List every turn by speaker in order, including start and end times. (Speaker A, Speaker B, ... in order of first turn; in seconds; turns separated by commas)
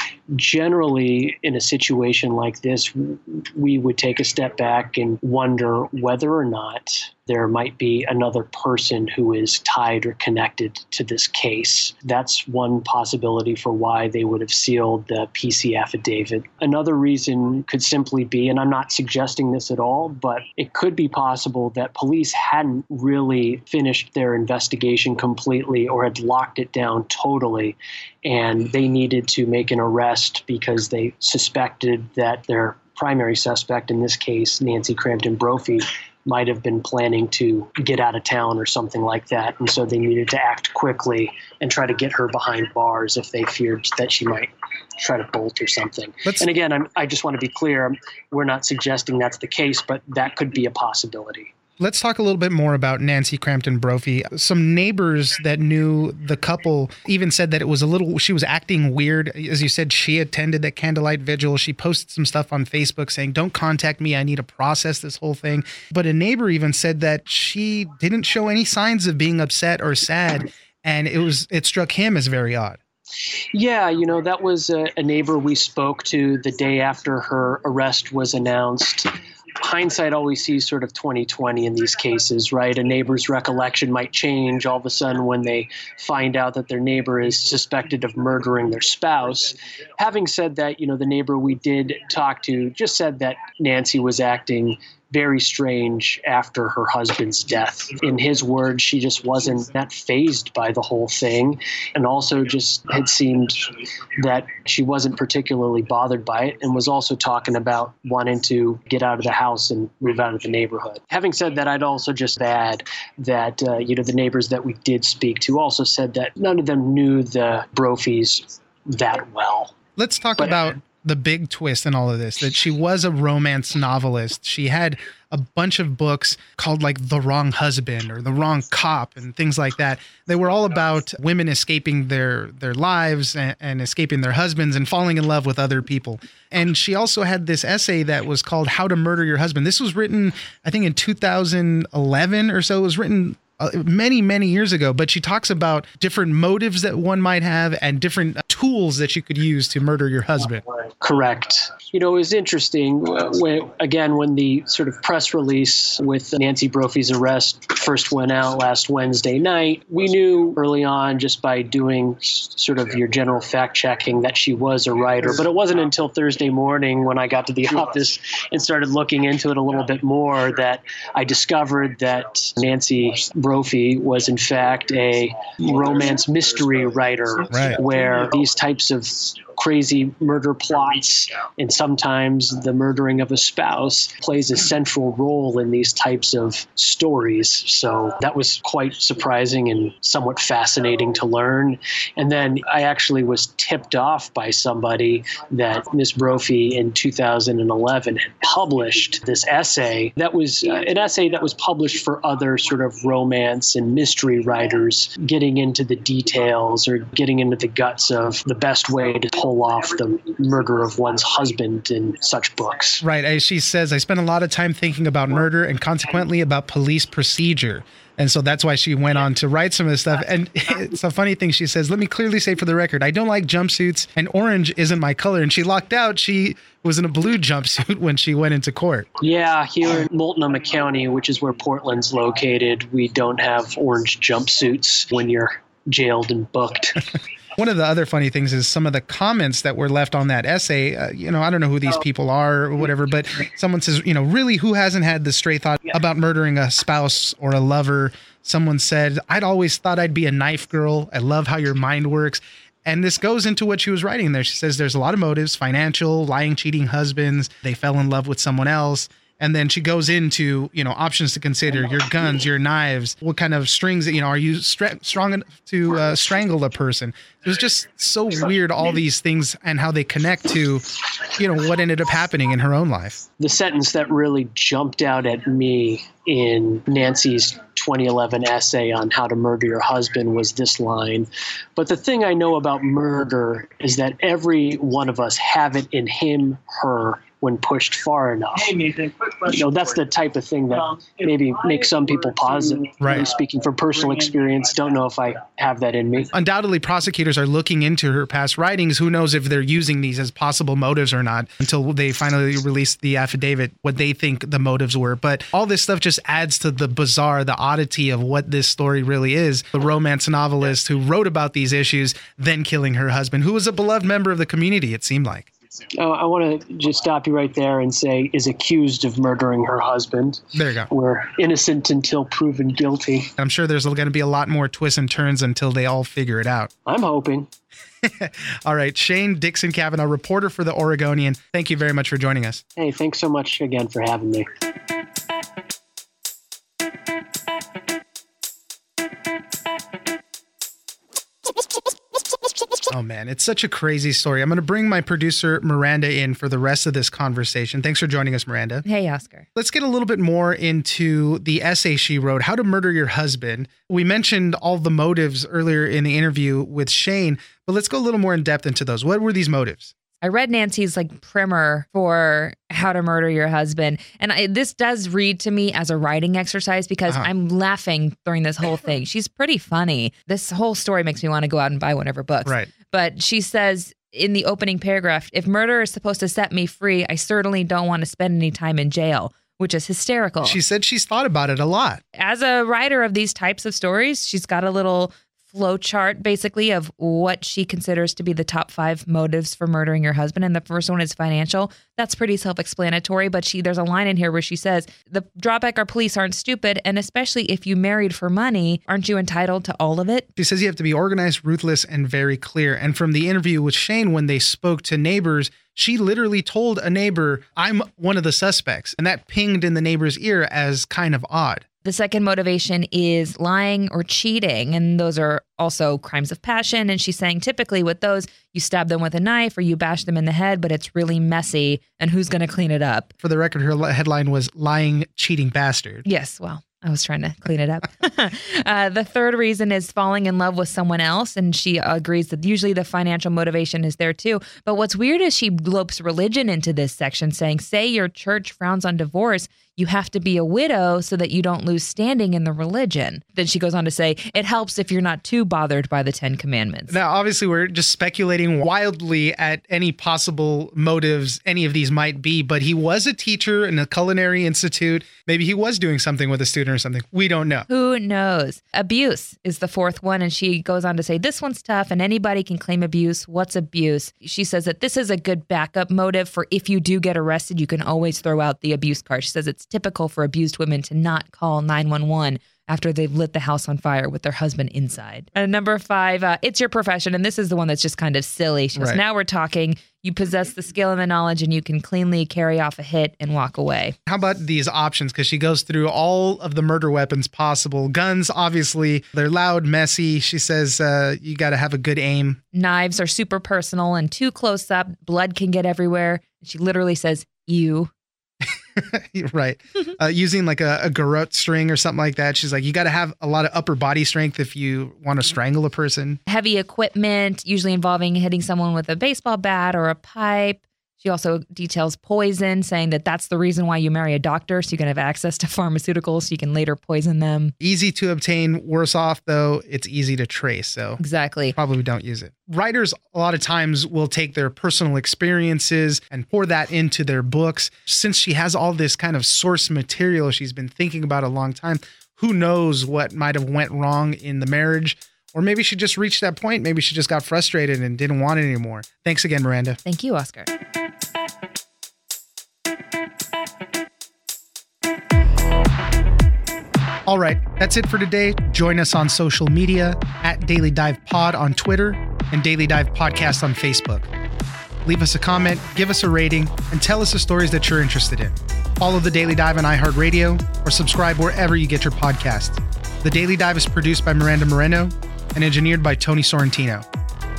Speaker A: 0.3-51.5, Speaker B: 51.8-72.8, Speaker A: 73.5-119.7, Speaker B: 120.0-150.6, Speaker A: 151.0-213.0, Speaker B: 177.5-177.8, Speaker B: 213.0-229.1, Speaker A: 229.2-237.0, Speaker B: 237.6-273.2, Speaker A: 273.4-296.3, Speaker B: 293.0-293.3, Speaker B: 296.3-315.5, Speaker A: 315.9-323.3, Speaker B: 320.6-320.9, Speaker B: 323.4-326.7, Speaker A: 326.9-327.5, Speaker B: 328.0-332.6, Speaker A: 332.8-334.5, Speaker B: 342.9-348.9, Speaker C: 348.9-349.4, Speaker B: 349.6-359.9, Speaker C: 360.2-380.6, Speaker B: 372.4-372.7, Speaker B: 380.4-382.0, Speaker C: 382.2-400.3, Speaker B: 400.4-411.6, Speaker C: 411.9-423.1, Speaker B: 423.2-426.0, Speaker C: 426.1-447.0, Speaker B: 446.9-457.7, Speaker C: 457.7-484.0, Speaker B: 478.8-479.0, Speaker B: 484.1-492.4, Speaker C: 492.5-497.9, Speaker B: 498.8-506.2, Speaker C: 506.3-517.5, Speaker B: 517.6-521.0, Speaker C: 521.0-521.5, Speaker B: 521.5-539.8, Speaker C: 539.9-540.5, Speaker B: 547.1-554.1, Speaker B: 554.9-566.9